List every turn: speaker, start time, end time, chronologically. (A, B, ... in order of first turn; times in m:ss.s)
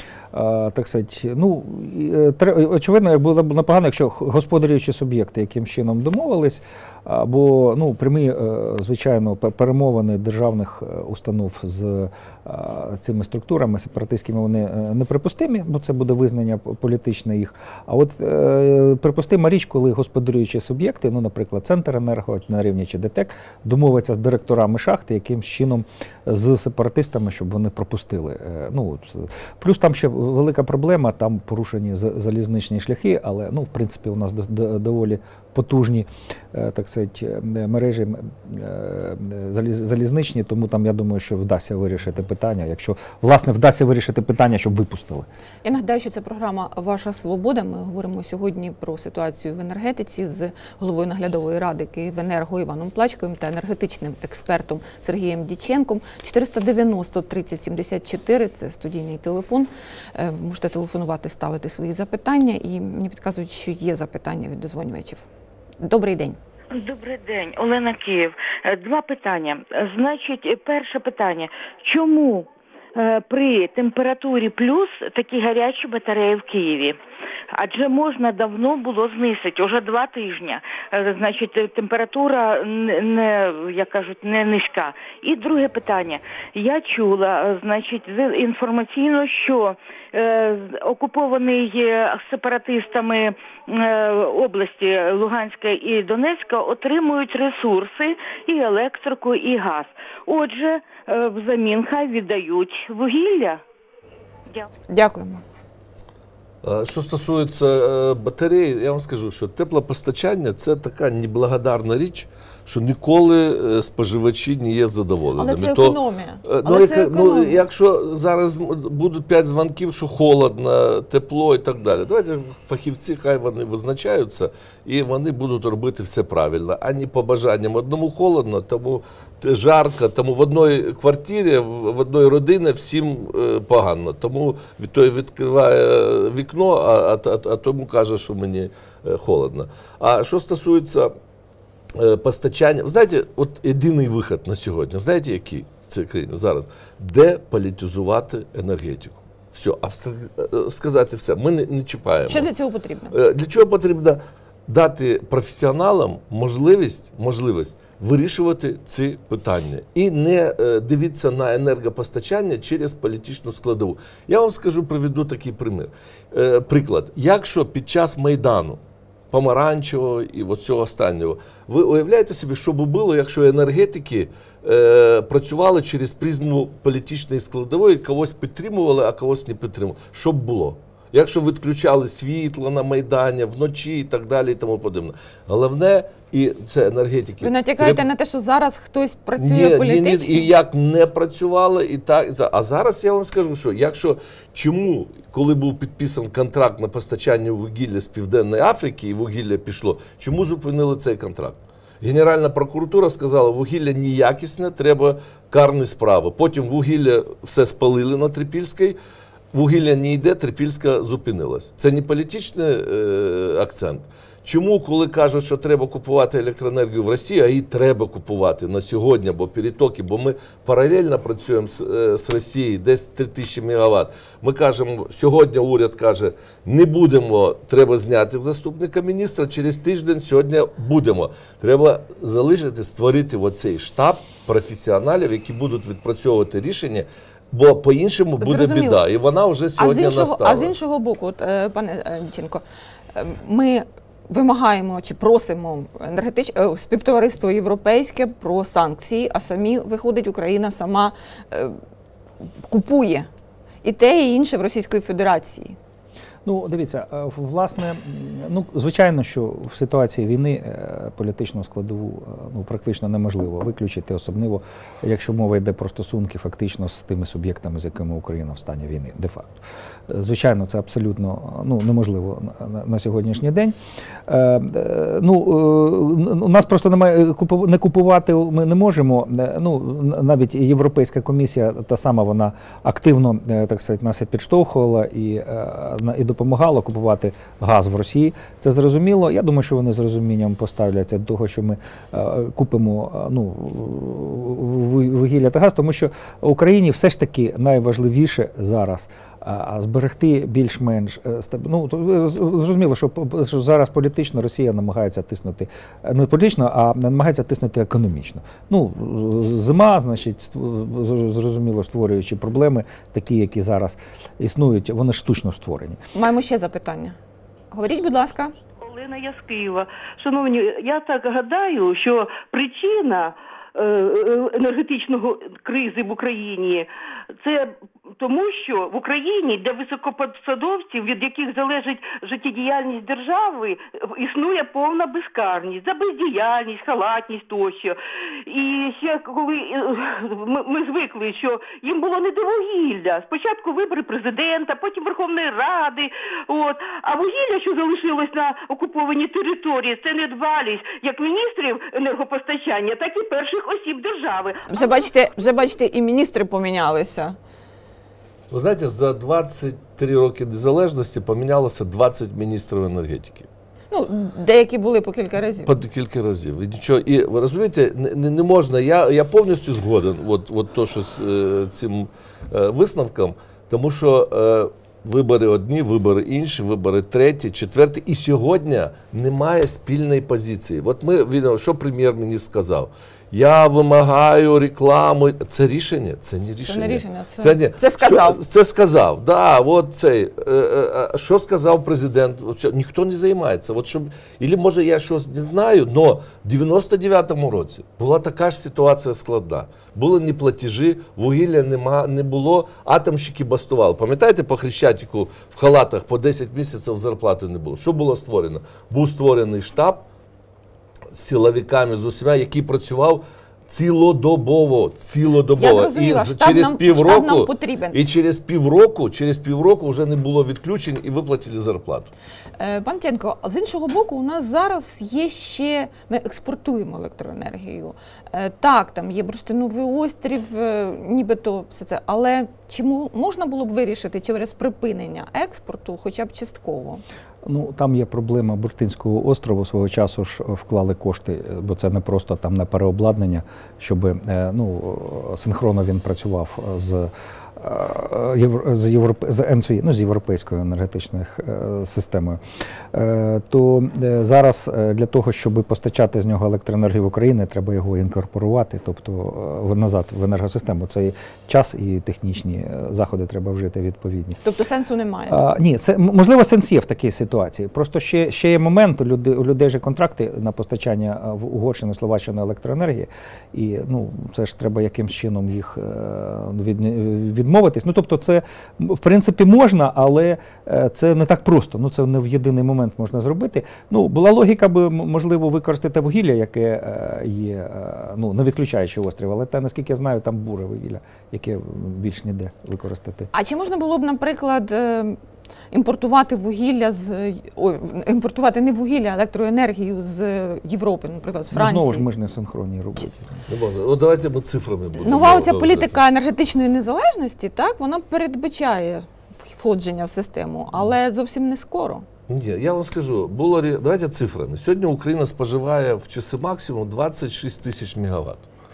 0:00.3-0:45.3 A
0:45.6-1:05.2 B
1:05.8-1:06.4 B
1:06.7-1:17.0 C
1:17.6-1:43.6 C
1:44.9-1:45.4 B
1:46.6-2:21.1 D
1:55.4-1:57.6 B
2:21.9-2:32.5 D
2:32.3-2:33.2 B
2:33.1-2:48.8 D
2:49.3-3:08.0 D
3:07.4-3:10.5 B
3:09.4-3:29.0 D
3:29.5-4:00.7 D
3:58.4-3:59.0 B
3:59.8-4:02.6 B
4:03.1-4:11.8 B
4:12.7-4:13.3 B
4:13.8-4:15.8 B
4:16.4-4:33.8 A
4:34.3-5:16.0 A
5:16.1-5:17.2 B
5:17.7-5:18.5 B
5:18.8-5:55.1 E
5:54.7-5:57.4 B
5:58.5-6:03.5 D
6:03.9-6:05.7 B
6:05.6-6:50.0 D
6:26.7-6:28.4 B
6:51.1-7:02.1 D
6:55.6-6:58.0 B
7:02.6-7:17.0 B
7:17.4-7:32.4 A
7:32.9-7:44.4 A
7:44.4-7:45.4 B
7:45.3-8:13.3 A
8:13.3-8:15.2 B
8:15.7-8:22.1 B
8:21.5-8:23.3 A
8:23.5-8:26.0 D
8:25.0-8:32.1 B
8:32.3-8:38.5 D